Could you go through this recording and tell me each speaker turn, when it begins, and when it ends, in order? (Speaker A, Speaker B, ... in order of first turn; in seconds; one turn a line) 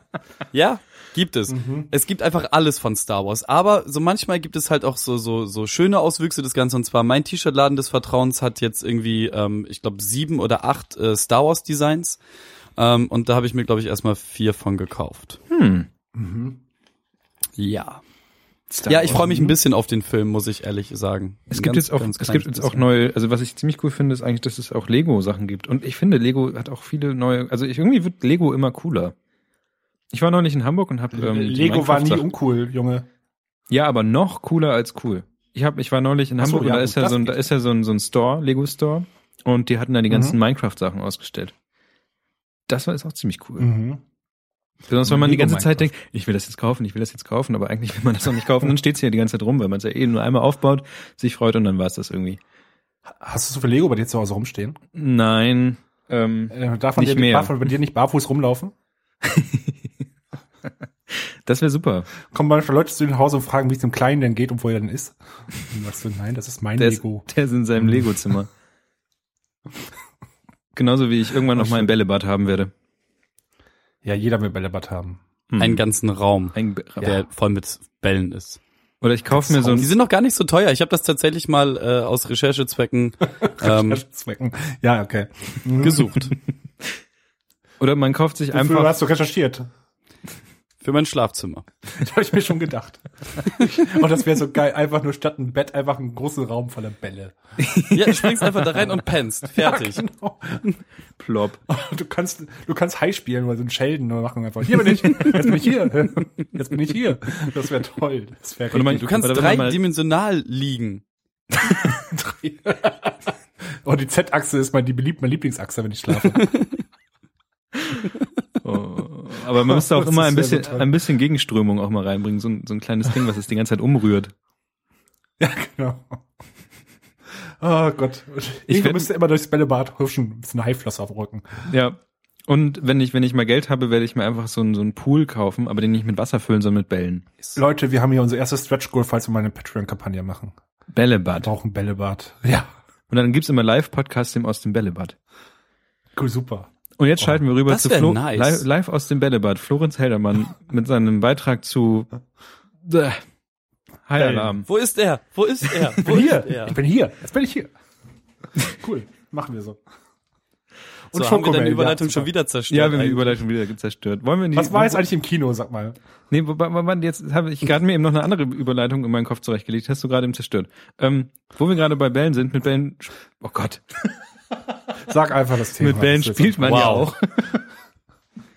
Speaker A: 0.5-12.2
Speaker B: 1.5-1.9
Speaker A: 12.8-15.4
Speaker C: 15.5-15.9
Speaker B: 16.1-16.6
Speaker A: 17.6-18.0
Speaker C: 18.7-19.6
Speaker A: 18.9-22.9
Speaker C: 21.5-29.1
Speaker C: 30.1-32.2
Speaker B: 31.1-33.0
Speaker C: 33.7-41.5
Speaker B: 36.4-37.4
Speaker B: 40.1-40.4
Speaker C: 42.7-43.7
Speaker B: 43.6-44.0
Speaker C: 44.9-52.4
Speaker B: 45.0-45.9
Speaker B: 53.1-54.8
Speaker C: 54.9-57.5
Speaker B: 56.5-58.7
Speaker C: 59.2-59.9
Speaker C: 61.1-62.1
Speaker B: 62.3-67.3
Speaker C: 66.8-68.5
Speaker B: 67.8-68.1
Speaker C: 70.7-72.7
Speaker B: 71.5-71.9
Speaker B: 74.0-75.2
Speaker C: 75.5-75.8
Speaker A: 75.6-78.6
Speaker C: 76.5-77.2
Speaker C: 79.0-79.9
Speaker B: 79.4-79.8
Speaker A: 79.6-84.0
Speaker B: 83.4-86.1
Speaker A: 85.8-86.3
Speaker C: 87.8-89.0
Speaker B: 88.5-89.7
Speaker A: 90.8-91.7
Speaker B: 91.9-97.3
Speaker C: 97.6-98.3
Speaker A: 97.9-100.0
Speaker B: 99.6-100.7
Speaker C: 101.2-101.6
Speaker B: 101.7-109.2
Speaker C: 108.7-109.8
Speaker A: 108.9-111.0
Speaker B: 111.9-113.2
Speaker B: 113.8-116.5
Speaker A: 116.4-116.8
Speaker C: 118.6-124.3
Speaker B: 119.6-120.9
Speaker B: 125.4-126.2
Speaker B: 127.6-131.7
Speaker C: 128.7-129.1
Speaker C: 131.7-137.3
Speaker B: 137.5-140.5
Speaker C: 140.9-141.5
Speaker B: 141.4-142.7
Speaker C: 143.1-145.2
Speaker B: 146.1-146.7
Speaker C: 147.0-152.1
Speaker A: 147.7-148.7
Speaker C: 152.8-153.2
Speaker C: 154.1-154.7
Speaker B: 154.2-154.6
Speaker A: 154.7-156.8
Speaker B: 156.0-157.7
Speaker B: 158.6-159.8
Speaker B: 161.1-162.3
Speaker A: 161.1-163.4
Speaker C: 162.7-165.0
Speaker B: 164.5-165.9
Speaker C: 166.3-174.2
Speaker B: 175.0-177.1
Speaker C: 175.8-177.5
Speaker A: 176.6-177.1